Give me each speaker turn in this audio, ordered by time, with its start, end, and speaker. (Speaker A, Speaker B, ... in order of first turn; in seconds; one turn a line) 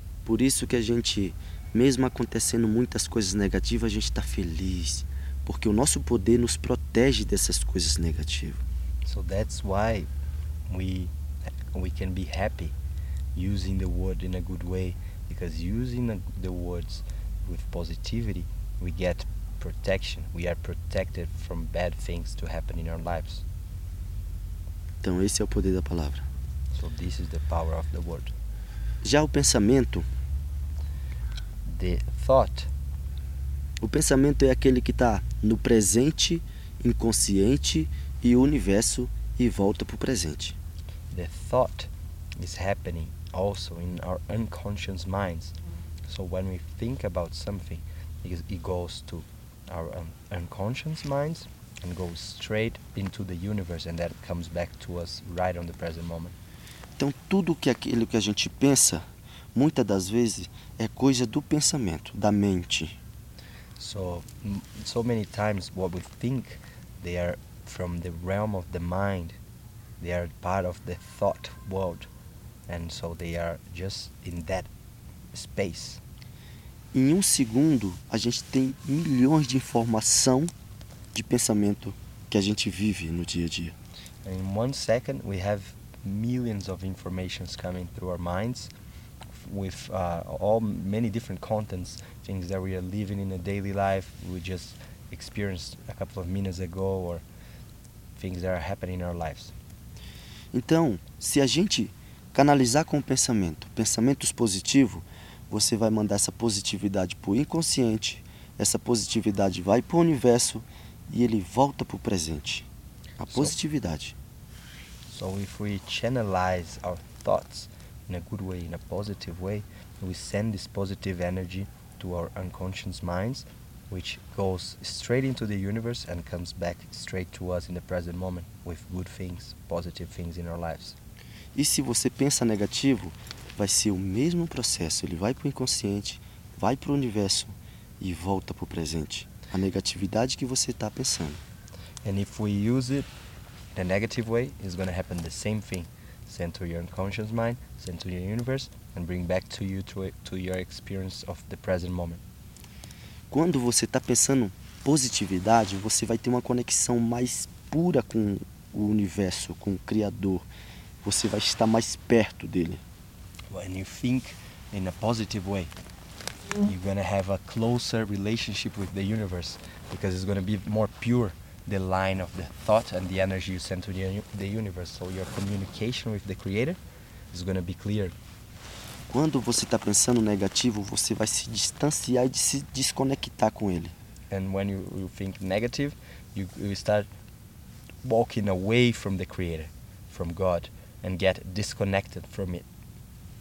Speaker A: 0.2-8.6
Speaker B: 9.1-10.1
Speaker B: 10.7-11.1
Speaker B: 11.7-12.7
Speaker B: 13.3-23.4
Speaker A: 25.0-26.2
Speaker B: 26.7-28.3
Speaker A: 29.0-30.1
Speaker B: 31.6-32.7
Speaker A: 33.8-40.5
Speaker B: 41.1-45.5
Speaker B: 46.1-56.4
Speaker A: 57.0-59.0
Speaker A: 59.5-63.0
Speaker B: 63.8-69.4
Speaker B: 70.0-72.1
Speaker B: 72.7-74.7
Speaker B: 75.3-76.0
Speaker A: 76.9-80.5
Speaker A: 81.1-83.7
Speaker B: 84.2-88.7
Speaker B: 89.3-97.2
Speaker B: 98.2-99.5
Speaker A: 100.5-112.7
Speaker A: 113.2-114.1
Speaker B: 115.1-131.0
Speaker A: 131.5-141.4
Speaker B: 142.0-143.1
Speaker B: 143.7-152.2
Speaker A: 153.3-160.4
Speaker A: 161.0-162.8
Speaker B: 163.5-165.7
Speaker B: 166.6-176.8
Speaker B: 177.3-178.1
Speaker A: 179.1-183.9
Speaker B: 184.3-187.1
Speaker B: 188.0-192.6